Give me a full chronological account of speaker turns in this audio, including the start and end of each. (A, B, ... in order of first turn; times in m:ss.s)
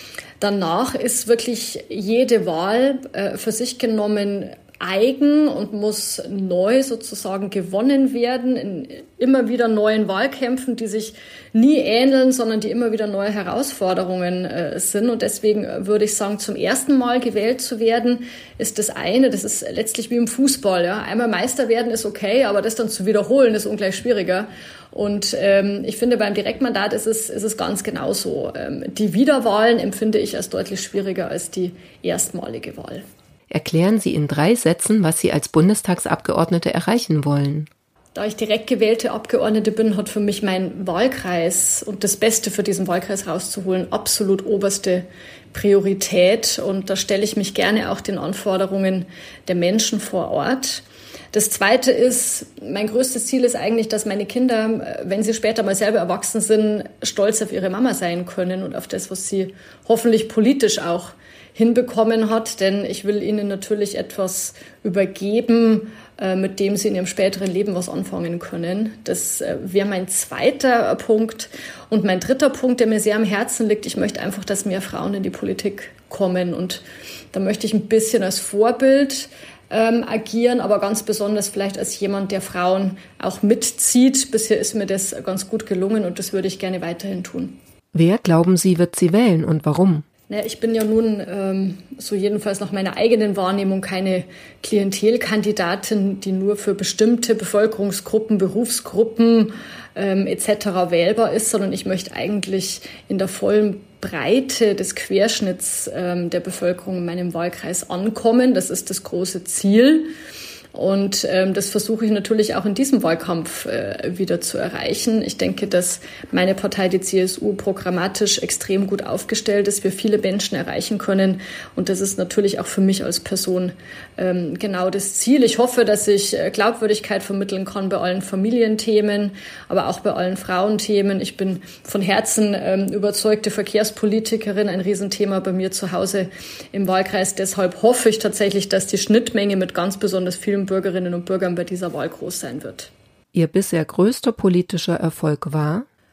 0:00.4-0:33.0 A
0:33.5-0:37.7 B
0:38.1-1:27.6 A
1:27.9-1:30.0 B
1:30.3-1:50.1 A
1:50.7-2:22.9 A
2:23.3-2:25.8 B